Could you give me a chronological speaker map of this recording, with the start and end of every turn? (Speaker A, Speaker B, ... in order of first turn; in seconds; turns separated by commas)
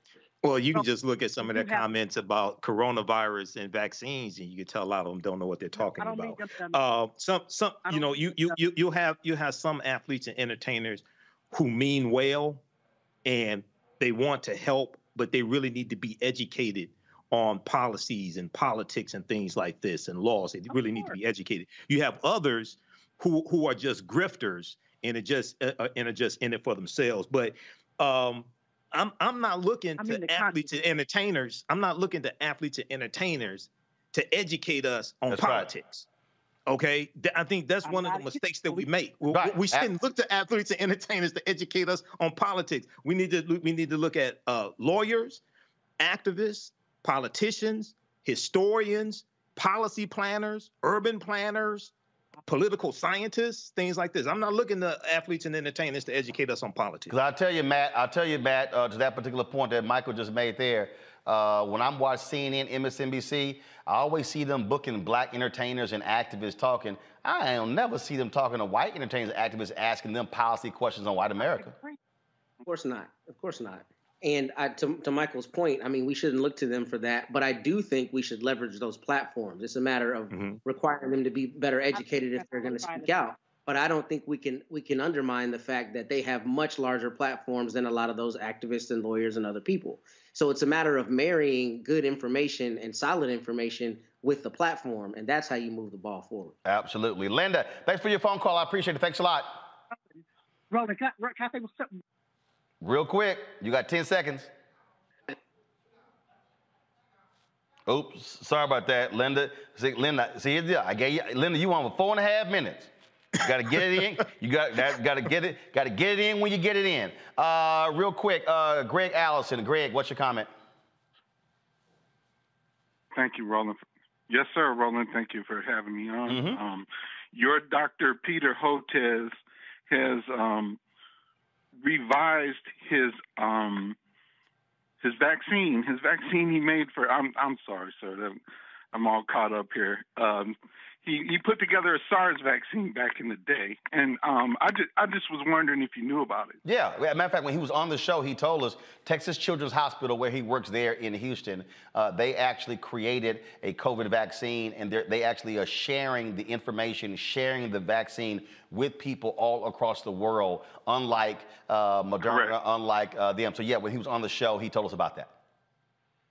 Speaker A: 0.4-12.6, Speaker B: 1.4-1.9, Speaker B: 5.8-6.8, Speaker B: 7.9-8.6, Speaker A: 13.2-36.1, Speaker B: 20.7-21.2, Speaker B: 30.0-30.7, Speaker C: 35.3-35.7, Speaker A: 36.7-45.4, Speaker B: 37.8-38.9, Speaker C: 39.3-39.9, Speaker A: 46.0-51.9, Speaker A: 52.5-57.1, Speaker C: 57.1-71.8, Speaker B: 71.4-72.0, Speaker D: 72.7-96.6, Speaker A: 80.3-80.6, Speaker B: 81.9-83.1, Speaker C: 96.7-99.6, Speaker B: 99.9-102.0, Speaker C: 102.8-104.5, Speaker C: 107.9-120.5, Speaker E: 123.2-123.6, Speaker E: 124.3-126.8, Speaker C: 126.3-126.6, Speaker E: 127.4-129.3, Speaker E: 129.9-130.8, Speaker E: 131.8-133.9, Speaker E: 135.0-138.4, Speaker E: 138.9-140.6, Speaker E: 141.1-146.6, Speaker C: 146.6-165.3, Speaker E: 162.3-162.5